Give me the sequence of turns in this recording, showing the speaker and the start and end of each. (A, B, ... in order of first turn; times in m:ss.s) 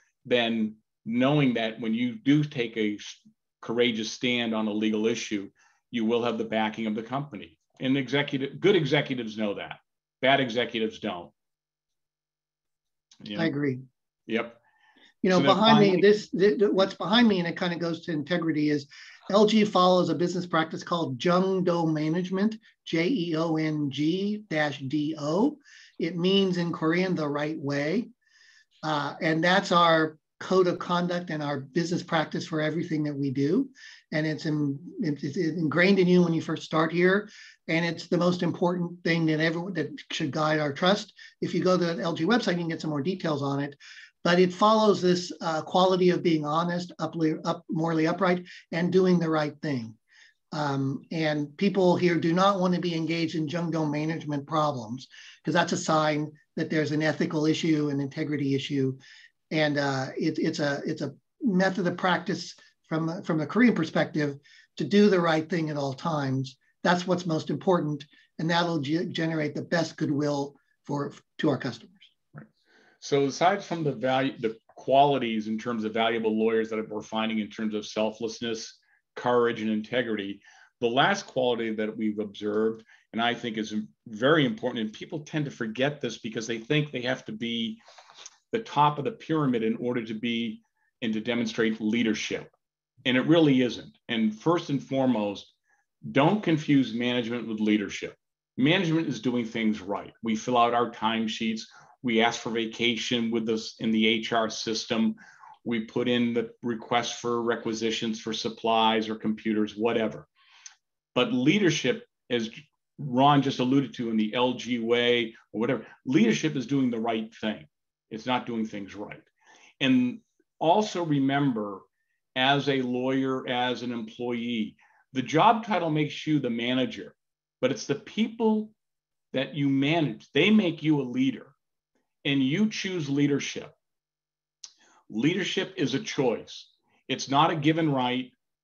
0:00.2-0:11.3 A
0:13.2-0:13.5 A
0:13.4-0:13.8 B
0:14.3-0:14.6 A
0:15.2-0:28.1 B
0:15.3-0:16.1 A
0:28.8-0:50.0 B
0:50.5-0:59.0 B
0:59.5-1:12.1 B
1:13.0-1:27.8 A
1:28.5-1:32.5 A
1:33.0-1:35.5 A
1:36.0-1:50.3 A
1:51.2-1:59.2 A
1:59.8-2:01.8 A
2:02.4-2:08.7 A
2:09.3-2:11.5 A
2:12.2-2:13.7 A
2:15.1-2:18.3 A